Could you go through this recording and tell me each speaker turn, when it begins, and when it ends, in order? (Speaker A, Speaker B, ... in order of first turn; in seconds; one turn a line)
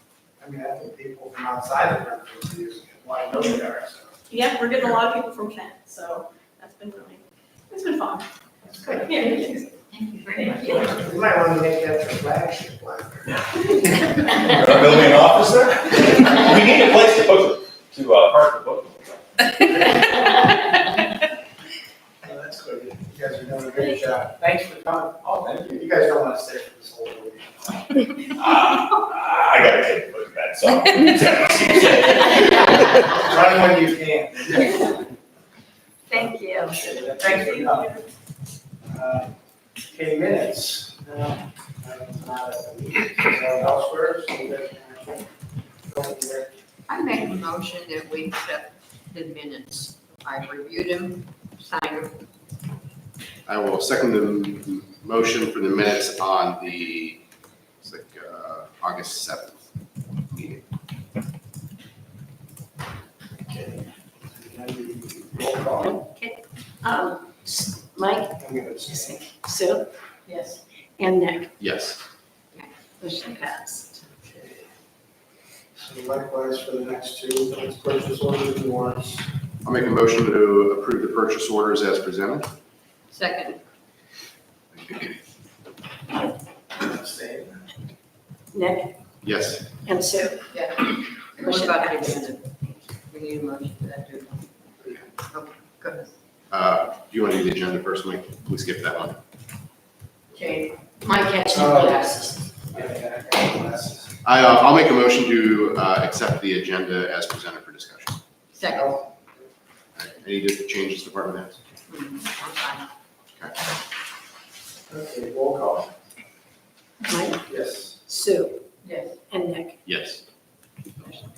Speaker A: 0.4-4.2
Speaker B: 4.3-8.3
Speaker C: 8.7-10.9
Speaker B: 8.8-9.7
Speaker A: 10.7-13.4
Speaker D: 14.0-19.2
Speaker A: 22.2-28.0
Speaker D: 28.3-32.6
Speaker A: 33.0-34.9
Speaker A: 36.1-38.0
Speaker C: 36.2-36.6
Speaker A: 38.9-39.3
Speaker A: 39.9-45.3
Speaker A: 45.8-46.5
Speaker C: 46.9-52.2
Speaker E: 53.5-57.2
Speaker E: 57.8-59.6
Speaker E: 60.3-60.6
Speaker A: 63.4-66.1
Speaker F: 66.8-69.9
Speaker A: 68.4-69.2
Speaker C: 70.2-70.6
Speaker F: 71.0-71.5
Speaker E: 71.6-72.0
Speaker F: 73.0-74.0
Speaker A: 74.2-74.6
Speaker A: 75.8-79.3
Speaker E: 79.6-82.5
Speaker C: 83.1-83.6
Speaker E: 84.7-85.1
Speaker A: 86.8-87.6
Speaker F: 88.5-88.9
Speaker E: 89.2-89.7
Speaker F: 89.8-92.3
Speaker C: 90.5-96.1
Speaker E: 96.5-99.2
Speaker C: 100.3-101.4
Speaker F: 101.0-102.6
Speaker A: 101.5-104.2
Speaker E: 104.2-108.2
Speaker C: 108.5-109.0
Speaker A: 108.6-109.1
Speaker E: 110.0-111.6
Speaker C: 111.9-112.8
Speaker A: 114.9-115.9
Speaker F: 117.0-117.4
Speaker A: 117.5-118.0
Speaker F: 118.0-118.6
Speaker C: 118.8-119.1
Speaker F: 119.3-119.8
Speaker E: 119.8-120.2